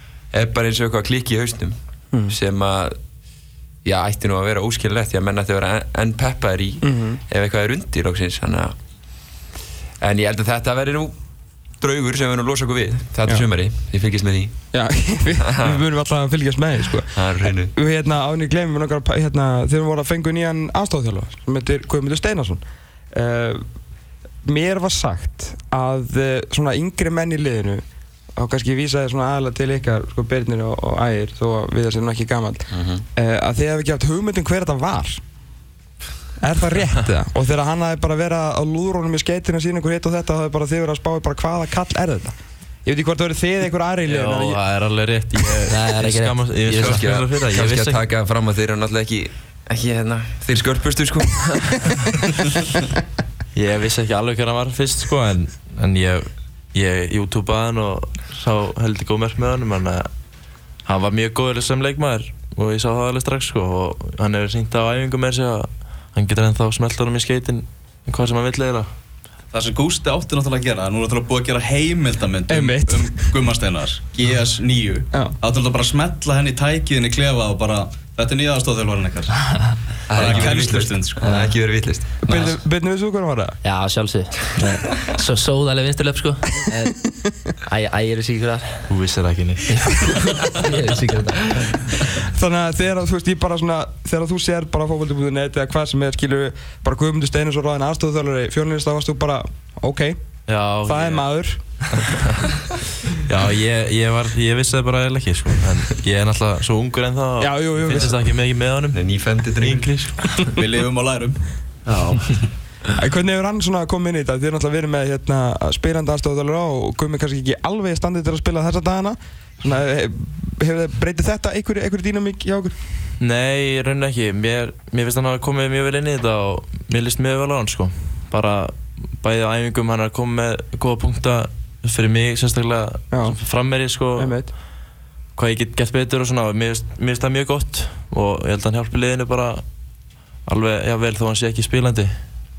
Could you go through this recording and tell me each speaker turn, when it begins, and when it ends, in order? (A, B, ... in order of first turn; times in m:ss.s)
0:00.3-0:03.0 A
0:03.8-0:08.7 A
0:06.8-0:07.2 B
0:10.0-0:11.2 A
0:11.8-0:14.5 A
0:14.7-0:23.6 B
0:15.4-0:15.8 A
0:17.1-0:17.7 A
0:24.4-0:27.8 B
0:28.4-0:35.2 B
0:32.7-0:33.0 A
0:36.4-0:44.6 B
0:44.0-0:48.0 C
0:45.7-0:47.0 D
0:46.7-0:52.3 A
0:53.5-1:00.1 C
1:00.8-1:08.9 C
1:09.5-1:19.5 E
1:12.5-1:13.1 B
1:20.1-1:22.6 A
1:20.1-1:21.2 E
1:21.2-1:21.5 D
1:22.2-1:23.6 B
1:23.6-1:27.0 D
1:26.7-1:27.5 B
1:27.6-1:28.9 D
1:28.9-1:30.0 C
1:29.7-1:31.8 D
1:32.2-1:40.2 B
1:40.5-1:41.2 C
1:40.8-1:41.9 B
1:41.9-1:42.3 C
1:43.2-1:50.5 C
1:47.4-1:48.1 B
1:48.9-1:49.9 A
1:50.4-1:52.4 E
1:51.9-1:52.2 D
1:53.0-2:02.8 B
2:03.2-2:14.4 C
2:13.1-2:13.4 B
2:14.2-2:14.5 B
2:15.4-2:19.6 C
2:20.5-2:22.1 C